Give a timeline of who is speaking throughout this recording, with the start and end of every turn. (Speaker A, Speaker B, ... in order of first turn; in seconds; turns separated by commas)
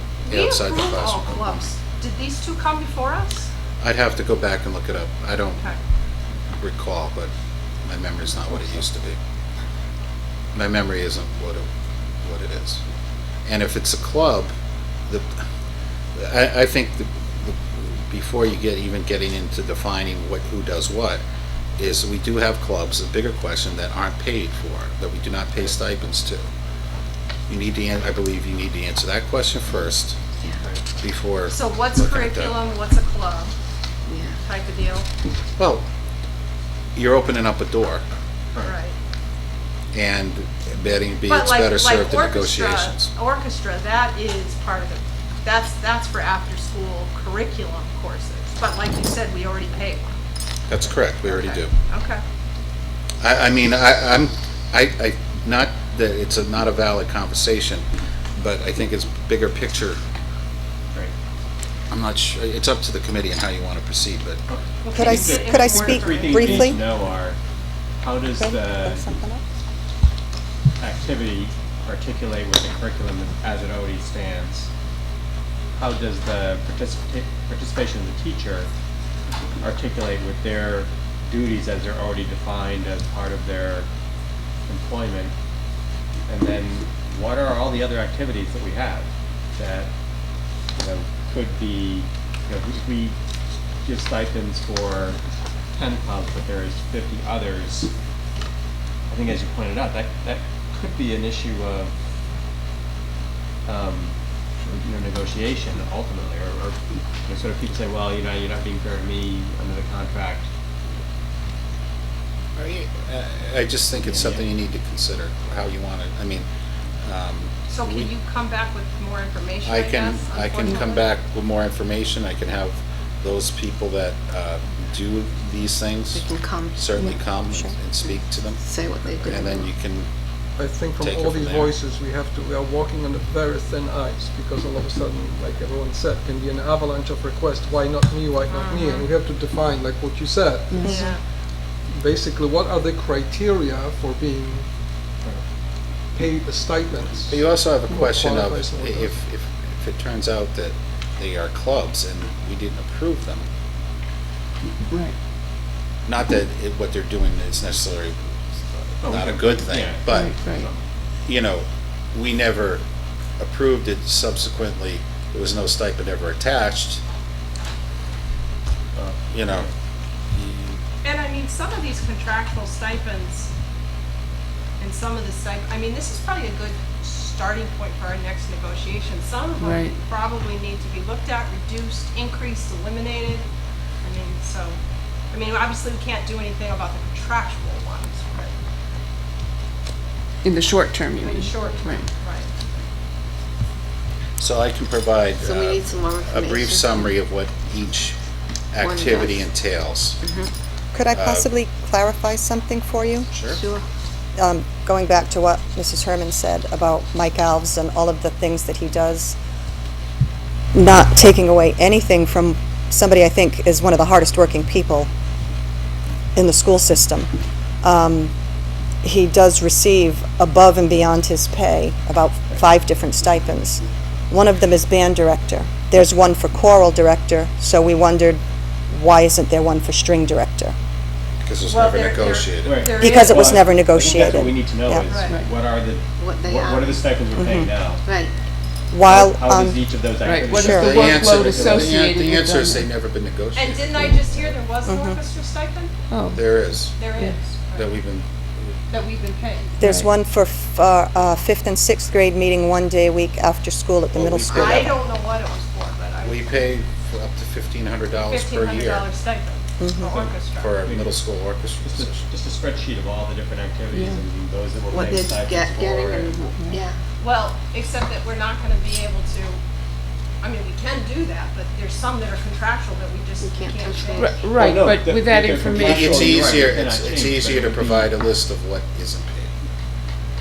Speaker A: 0.2-3.5, Speaker B: 0.3-1.7, Speaker B: 3.8-5.7, Speaker B: 6.6-7.3, Speaker B: 7.8-9.2, Speaker B: 10.6-11.7, Speaker B: 12.2-12.8, Speaker B: 13.5-14.5, Speaker B: 15.1-15.3, Speaker B: 16.2-21.2, Speaker B: 21.8-26.4, Speaker B: 27.5-30.2, Speaker B: 31.0-32.6, Speaker A: 31.5-33.5, Speaker C: 34.1-34.4, Speaker A: 34.5-35.1, Speaker B: 35.6-35.9, Speaker B: 37.0-38.0, Speaker A: 38.6-39.0, Speaker B: 39.9-43.1, Speaker A: 41.3-50.1, Speaker B: 50.7-51.7, Speaker A: 51.2-52.2, Speaker B: 53.2-57.9, Speaker B: 58.4-60.0, Speaker B: 61.9-64.4, Speaker D: 64.5-67.4, Speaker A: 64.8-66.8, Speaker E: 64.9-66.8, Speaker D: 68.0-69.0, Speaker E: 68.4-69.4, Speaker D: 70.8-74.7, Speaker D: 75.8-78.7, Speaker D: 79.6-83.9, Speaker D: 84.7-85.3, Speaker D: 86.3-89.9, Speaker D: 90.8-93.2, Speaker D: 93.8-95.2, Speaker D: 95.8-97.9, Speaker D: 99.1-101.9, Speaker D: 103.7-104.2, Speaker D: 104.7-110.5, Speaker B: 112.6-116.5, Speaker D: 114.0-114.5, Speaker B: 117.0-118.1, Speaker A: 117.7-121.1, Speaker B: 119.7-130.1, Speaker C: 126.1-126.9, Speaker E: 127.5-127.8, Speaker C: 128.6-129.7, Speaker F: 130.6-141.2, Speaker B: 131.0-131.8, Speaker A: 138.5-139.1, Speaker G: 140.7-141.0, Speaker A: 140.8-141.2, Speaker F: 141.9-144.7, Speaker F: 146.1-149.1, Speaker B: 147.3-153.4, Speaker G: 154.9-155.1, Speaker B: 156.1-160.3, Speaker D: 159.0-160.8, Speaker G: 160.1-160.7, Speaker B: 161.2-162.8, Speaker B: 163.4-167.0, Speaker D: 168.9-169.7, Speaker B: 169.3-169.7, Speaker B: 170.4-170.6, Speaker A: 171.0-173.5, Speaker A: 174.8-183.5, Speaker G: 179.6-180.0, Speaker A: 184.0-184.8, Speaker A: 185.3-188.5, Speaker G: 190.4-192.1, Speaker A: 191.2-192.5, Speaker B: 194.4-198.2, Speaker C: 195.4-197.2, Speaker B: 198.7-200.2, Speaker C: 198.8-199.5, Speaker C: 200.2-200.5, Speaker E: 200.9-203.3, Speaker B: 201.1-201.5, Speaker B: 203.3-203.6, Speaker C: 203.5-203.8, Speaker E: 204.4-209.4, Speaker E: 210.7-215.1, Speaker E: 216.4-217.3, Speaker E: 217.8-218.3, Speaker E: 219.0-230.8, Speaker B: 231.4-232.9, Speaker A: 231.7-233.6, Speaker D: 232.6-238.0, Speaker E: 233.0-235.1, Speaker A: 235.1-235.3, Speaker C: 236.2-237.0, Speaker E: 237.3-237.7, Speaker C: 238.0-238.3, Speaker E: 238.9-239.8, Speaker D: 239.0-242.0, Speaker G: 240.2-242.9, Speaker E: 240.5-241.0, Speaker B: 240.6-244.4, Speaker A: 243.6-245.9, Speaker E: 244.9-245.2, Speaker G: 246.1-246.4, Speaker B: 246.3-247.1, Speaker A: 247.0-247.9, Speaker B: 247.7-248.8, Speaker A: 248.9-249.7, Speaker E: 249.8-255.0, Speaker G: 249.8-250.1, Speaker B: 254.1-255.0, Speaker A: 254.5-256.5, Speaker B: 256.2-259.1, Speaker A: 258.2-260.8, Speaker E: 259.8-260.3, Speaker B: 260.5-262.3, Speaker D: 260.8-261.2, Speaker D: 261.8-266.4, Speaker G: 263.9-264.2, Speaker C: 264.9-267.0, Speaker G: 266.4-266.8, Speaker A: 267.2-269.6, Speaker A: 270.4-274.4, Speaker C: 273.4-274.4, Speaker G: 274.2-276.8, Speaker D: 274.6-278.1, Speaker B: 275.7-279.5